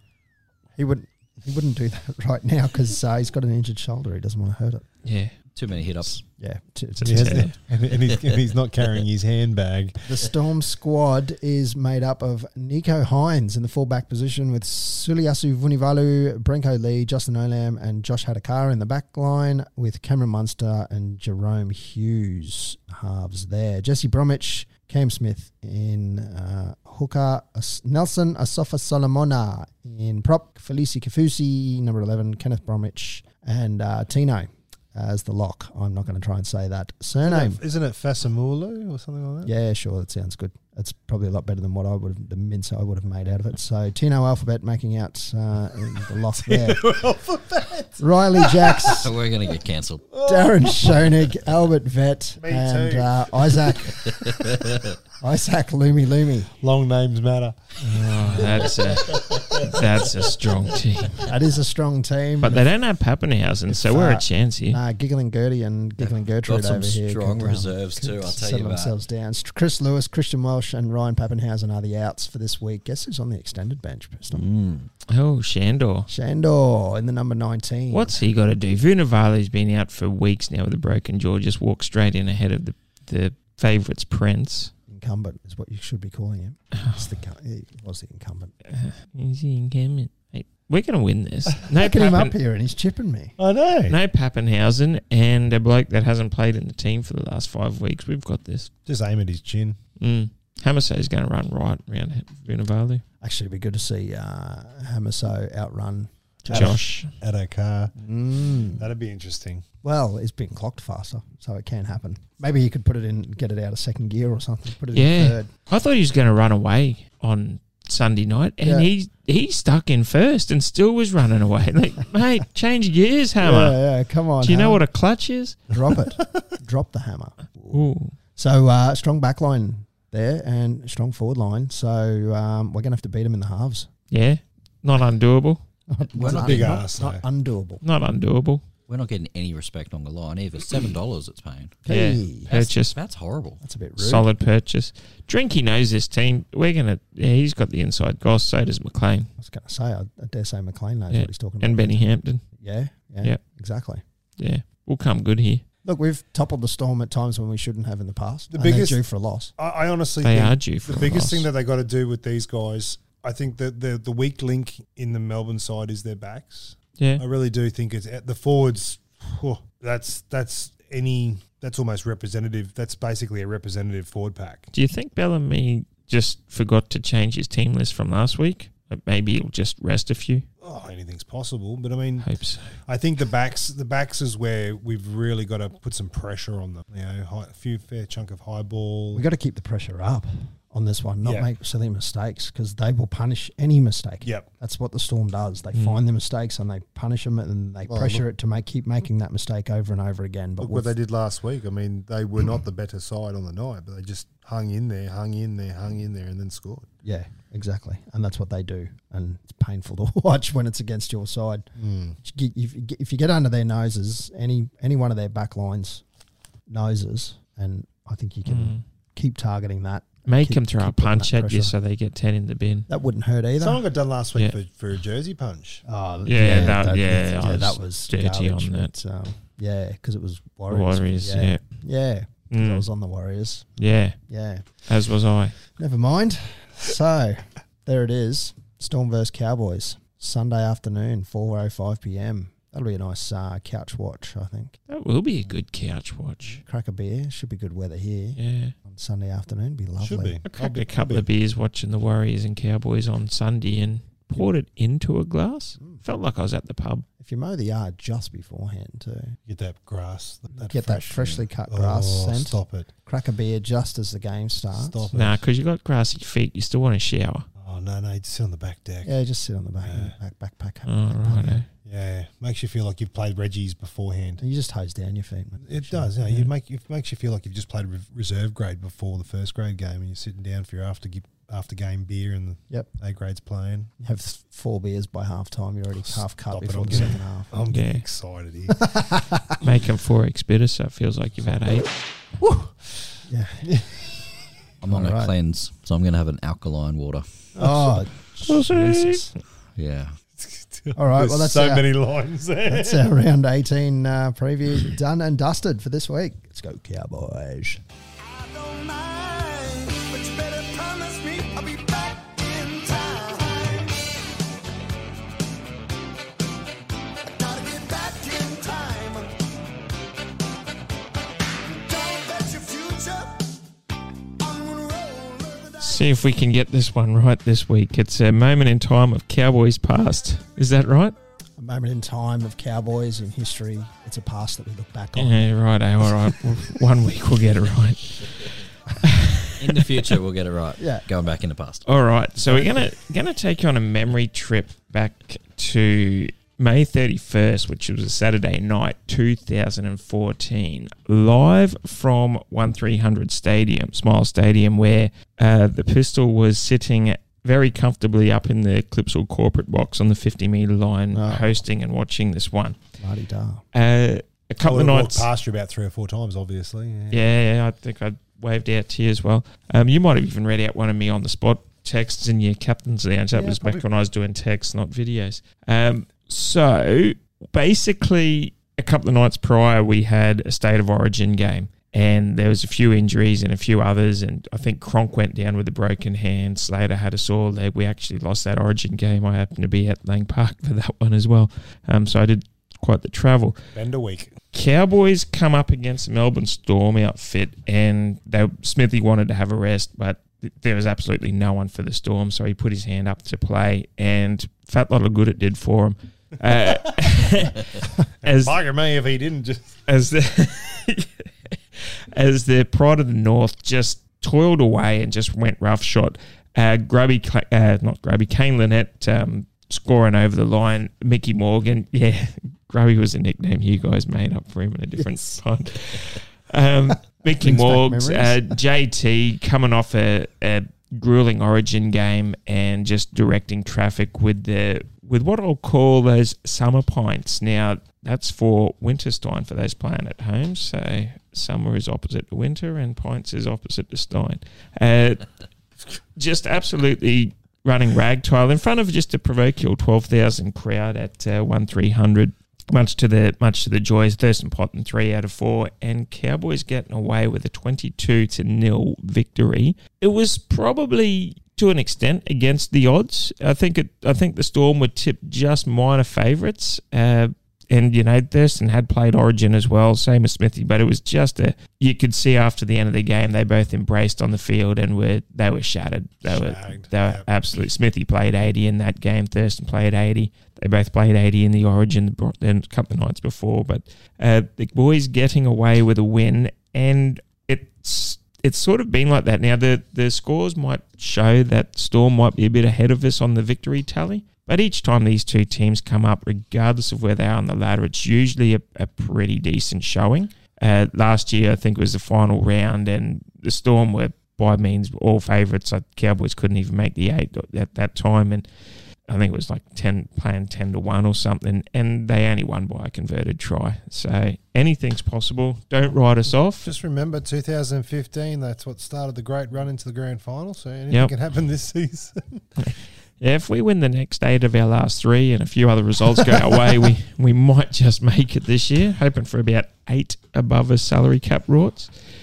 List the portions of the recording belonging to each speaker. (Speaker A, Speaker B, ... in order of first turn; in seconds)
Speaker A: 0.8-4.8, 6.1-7.5, 10.0-37.6, 39.4-46.8, 48.0-49.1, 50.2-54.3, 55.2-56.5, 58.3-58.7, 61.2-62.6, 63.7-74.5, 76.1-78.2, 84.9-88.5, 91.7-93.3, 103.2-106.8, 108.0-108.9, 109.8-115.5, 118.6-118.9, 123.4-124.8, 125.7-127.8, 128.3-133.9, 135.9-137.8, 141.8-142.5, 143.6-144.3, 149.4-152.0, 152.6-154.0, 155.8-159.5, 189.1-200.9, 207.0-211.7, 212.2-216.0, 216.7-221.7, 222.9-223.8, 225.8-233.7, 234.3-234.7, 235.7-244.7, 246.5-250.4, 257.2-259.4, 260.6-265.1, 269.0-271.6, 274.4-276.5, 284.0-287.5, 288.7-289.6, 292.4-292.7, 293.3-294.0, 294.8-295.3, 297.6-299.3, 300.9-301.9, 302.7-307.8, 331.6-335.4, 340.8-341.0, 342.4-342.9, 361.1-361.6, 363.0-363.6, 373.3-373.8, 427.4-428.6
Speaker B: 5.0-5.3, 7.0-7.5, 57.8-61.2, 62.4-64.8, 75.1-76.1, 77.9-84.7, 86.7-87.0, 88.7-92.3, 93.9-98.7, 100.0-103.0, 106.5-107.1, 114.9-123.8, 124.4-125.6, 127.7-128.1, 134.1-135.6, 137.8-138.6, 141.9-142.9, 144.0-149.3, 151.1-152.4, 154.4-155.6, 160.2-161.5, 167.0-167.2, 174.7-180.4, 182.2-182.7, 195.7-196.0, 218.4-218.8, 220.2-222.9, 226.2-228.9, 230.7-231.6, 232.5-232.8, 233.8-234.2, 234.8-235.5, 244.9-246.6, 248.4-248.7, 250.5-257.1, 265.1-267.4, 270.8-271.7, 287.7-288.0, 289.6-291.9, 298.4-299.3, 325.8-331.1, 335.1-340.0, 341.9-362.8, 363.7-365.3, 367.1-393.6, 394.5-408.6, 409.9-445.3, 446.1-508.5, 509.1-516.7, 522.6-531.9
Speaker C: 5.5-6.2, 7.9-8.2, 48.8-50.1, 54.0-54.9, 58.5-59.6, 66.0-69.0, 74.3-74.9, 136.2-136.8, 138.9-141.8, 142.5-143.6, 294.8-297.4, 299.8-300.2, 339.6-341.9
Speaker D: 7.0-9.9, 37.2-39.5, 46.4-49.0, 50.1-51.1, 52.4-54.0, 56.6-57.6, 93.4-94.0, 98.8-99.8, 106.5-107.9, 108.6-109.6, 136.2-137.2, 158.5-159.0, 159.6-174.7, 180.6-182.3, 182.8-189.2, 191.2-191.5, 197.8-198.2, 200.6-206.9, 211.8-212.2, 223.6-225.8, 250.0-251.3, 259.5-262.9, 264.7-265.4, 267.6-269.1, 269.8-270.1, 271.8-274.4, 275.6-283.9, 286.1-288.8, 297.6-297.9, 300.4-303.0, 364.6-367.2, 393.7-394.3, 408.2-409.8, 476.2-477.3, 516.6-522.4
Speaker E: 308.2-314.1, 317.3-319.3, 321.7-323.5, 324.4-326.1